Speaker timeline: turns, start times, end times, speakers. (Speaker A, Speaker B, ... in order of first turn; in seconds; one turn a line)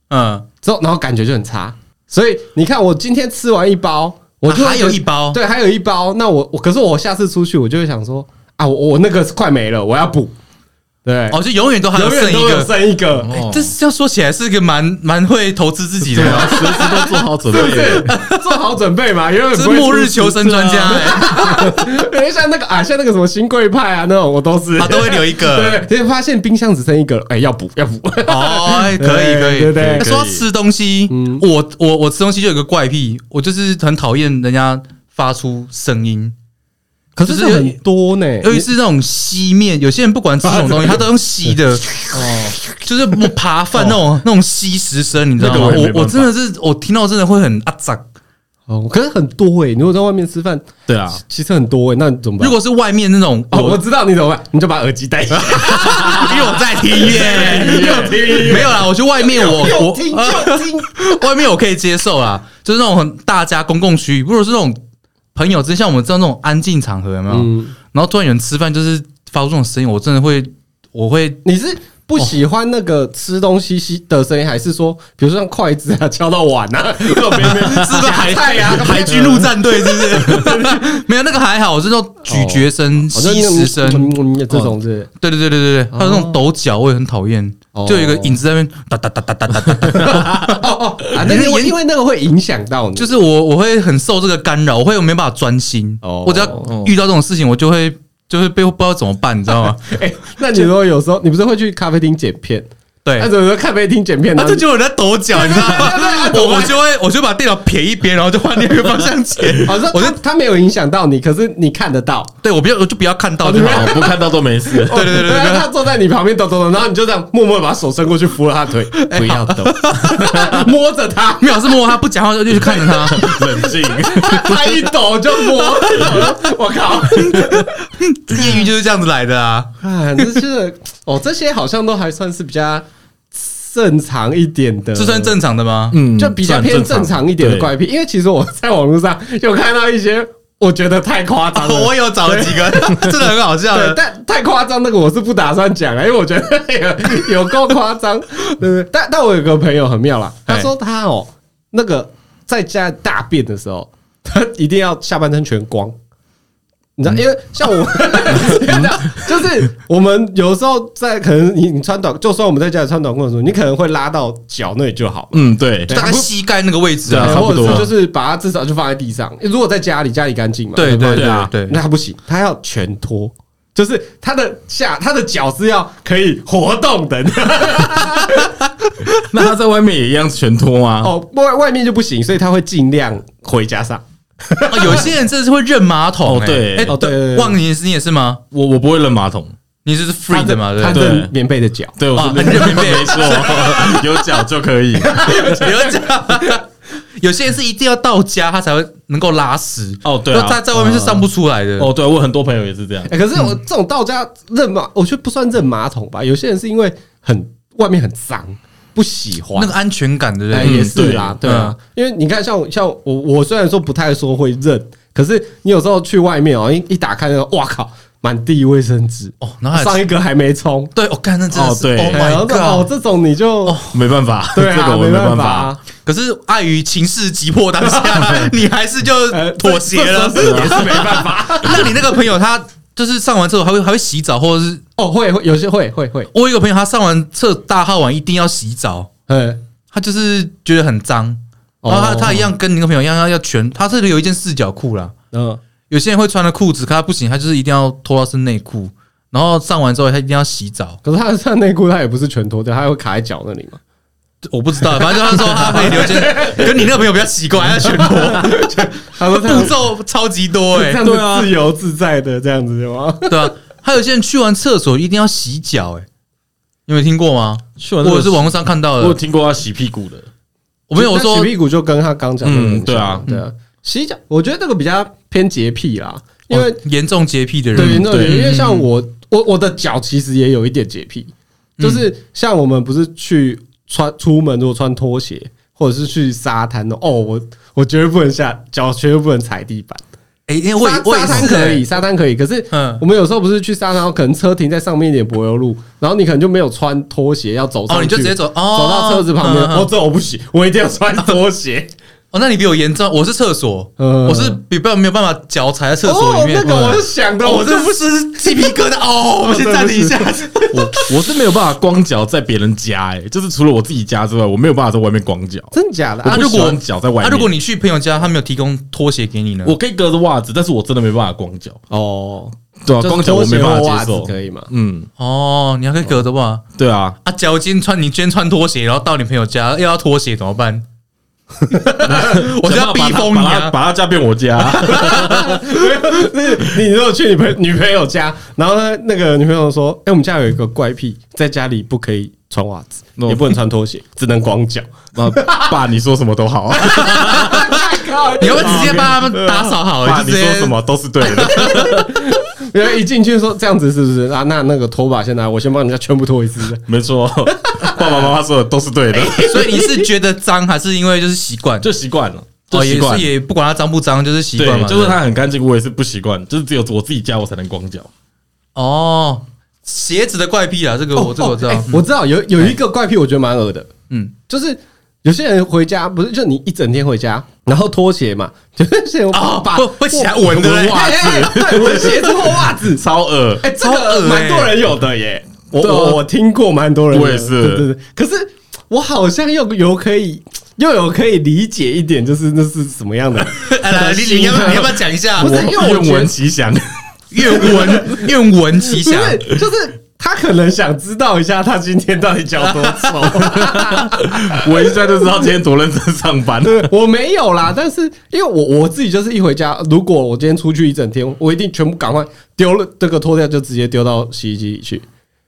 Speaker A: 0.1-0.4
Speaker B: 0.6-10.3
Speaker A: 4.5-5.4
Speaker B: 11.0-11.4
Speaker A: 11.3-12.7
Speaker B: 11.9-13.3
Speaker C: 13.2-13.7
Speaker A: 13.3-17.1
Speaker C: 16.0-18.1
Speaker B: 16.2-30.1
Speaker A: 17.7-18.6
Speaker A: 19.5-21.7
Speaker C: 20.6-20.9
Speaker A: 24.8-25.8
Speaker A: 28.3-36.3
Speaker C: 29.7-30.4
Speaker B: 31.1-31.4
Speaker B: 37.2-38.7
Speaker A: 37.2-37.8
Speaker A: 38.4-48.0
Speaker B: 40.5-41.0
Speaker B: 42.1-42.6
Speaker C: 45.4-46.3
Speaker B: 48.7-52.5
Speaker C: 50.9-51.2
Speaker A: 52.4-53.8
Speaker B: 53.5-61.2
Speaker A: 55.4-64.8
Speaker C: 56.0-56.3
Speaker C: 57.0-58.7
Speaker A: 65.3-71.4
Speaker B: 67.3-67.7
Speaker B: 71.4-81.0
Speaker C: 77.0-78.1
Speaker A: 77.5-84.1
Speaker B: 82.2-85.1
Speaker A: 85.2-90.6
Speaker B: 85.9-86.4
Speaker B: 87.7-88.4
Speaker B: 89.9-93.2
Speaker C: 90.0-90.5
Speaker A: 91.1-91.8
Speaker A: 93.0-100.0
Speaker B: 96.0-96.7
Speaker C: 96.7-96.9
Speaker B: 99.8-102.7
Speaker A: 103.0-103.3
Speaker B: 103.2-104.6
Speaker A: 104.4-110.2
Speaker B: 105.3-106.8
Speaker B: 109.6-112.3
Speaker A: 112.4-114.1
Speaker B: 113.4-121.7
Speaker C: 113.5-115.1
Speaker A: 114.8-115.7
Speaker A: 118.9-120.6
Speaker C: 120.2-120.5
Speaker A: 121.4-123.3
Speaker C: 122.5-124.9
Speaker B: 122.6-127.7
Speaker A: 125.9-126.2
Speaker C: 125.9-126.2
Speaker A: 127.1-130.3
Speaker B: 128.3-128.6
Speaker B: 129.8-135.4
Speaker A: 134.9-136.0
Speaker C: 135.9-137.7
Speaker B: 136.1-155.9
Speaker A: 141.5-144.0
Speaker B: 157.0-166.3
Speaker C: 158.3-159.2
Speaker C: 165.3-165.9
Speaker A: 165.9-167.9
Speaker C: 167.1-167.9
Speaker B: 167.1-178.7
Speaker A: 170.8-171.8
Speaker C: 171.1-171.5
Speaker C: 179.3-181.1
Speaker B: 181.0-185.1
Speaker A: 184.7-188.4
Speaker C: 186.2-186.9
Speaker B: 186.9-187.6
Speaker C: 188.5-189.5
Speaker A: 189.8-191.1
Speaker B: 190.3-194.0
Speaker C: 190.9-191.3
Speaker C: 192.0-195.5
Speaker A: 192.1-194.0
Speaker B: 195.0-196.6
Speaker A: 195.2-196.6
Speaker A: 197.2-201.9
Speaker C: 200.0-200.6
Speaker B: 200.7-201.2
Speaker C: 201.8-203.1
Speaker B: 203.1-209.7
Speaker A: 209.5-211.7
Speaker B: 210.5-220.9
Speaker C: 210.6-211.4
Speaker A: 219.4-220.0
Speaker A: 220.9-222.9
Speaker C: 221.5-222.2
Speaker B: 222.1-223.8
Speaker A: 223.7-223.9
Speaker C: 223.9-225.7
Speaker B: 224.5-225.8
Speaker A: 226.0-234.8
Speaker B: 227.8-228.5
Speaker B: 229.3-231.9
Speaker C: 230.3-231.1
Speaker B: 235.0-236.3
Speaker A: 236.3-239.1
Speaker B: 239.3-239.6
Speaker A: 239.9-245.1
Speaker B: 241.8-242.5
Speaker B: 245.3-245.6
Speaker A: 245.9-251.0
Speaker B: 251.0-253.8
Speaker A: 254.5-258.7
Speaker B: 254.9-256.8
Speaker B: 257.9-259.7
Speaker A: 259.2-261.0
Speaker B: 260.7-263.5
Speaker C: 261.0-261.5
Speaker A: 263.3-266.1
Speaker A: 266.9-269.2
Speaker C: 267.8-270.3
Speaker A: 270.9-271.5
Speaker B: 270.9-276.8
Speaker C: 272.4-273.2
Speaker A: 276.5-278.9
Speaker C: 277.7-278.5
Speaker B: 277.7-290.0
Speaker A: 281.8-282.0
Speaker A: 290.5-291.8
Speaker B: 290.8-301.9
Speaker A: 292.7-293.0
Speaker A: 297.9-299.9
Speaker A: 302.3-311.1
Speaker B: 304.0-304.6
Speaker B: 306.0-307.9
Speaker B: 309.4-310.7
Speaker C: 310.7-315.7
Speaker B: 315.7-316.6
Speaker A: 316.2-319.7
Speaker C: 316.2-317.5
Speaker C: 319.6-321.8
Speaker B: 321.9-324.7
Speaker C: 322.8-325.1
Speaker A: 325.2-326.6
Speaker C: 326.8-327.1
Speaker A: 327.2-330.8
Speaker B: 331.7-332.2
Speaker A: 332.0-333.8
Speaker C: 332.1-335.7
Speaker B: 334.8-345.7
Speaker C: 343.2-343.5
Speaker C: 345.1-347.7
Speaker B: 346.9-349.7
Speaker A: 347.0-347.7
Speaker A: 348.4-351.8
Speaker C: 348.7-349.1
Speaker C: 350.0-352.1
Speaker B: 351.5-356.8
Speaker C: 356.9-359.7
Speaker B: 357.5-358.1
Speaker B: 359.1-360.0
Speaker A: 359.4-361.9
Speaker C: 361.8-363.3
Speaker A: 362.7-365.2
Speaker C: 364.6-368.1
Speaker A: 368.7-372.0
Speaker B: 371.1-373.9
Speaker B: 374.5-383.0
Speaker A: 379.3-382.0
Speaker C: 380.4-383.6
Speaker B: 383.6-396.3
Speaker A: 383.8-384.8
Speaker C: 385.8-386.2
Speaker C: 387.1-387.9
Speaker A: 393.5-395.7
Speaker C: 395.4-397.9
Speaker A: 397.3-399.4
Speaker B: 397.6-398.3
Speaker B: 398.8-405.3
Speaker A: 402.6-403.6
Speaker C: 403.7-406.9
Speaker B: 406.6-415.0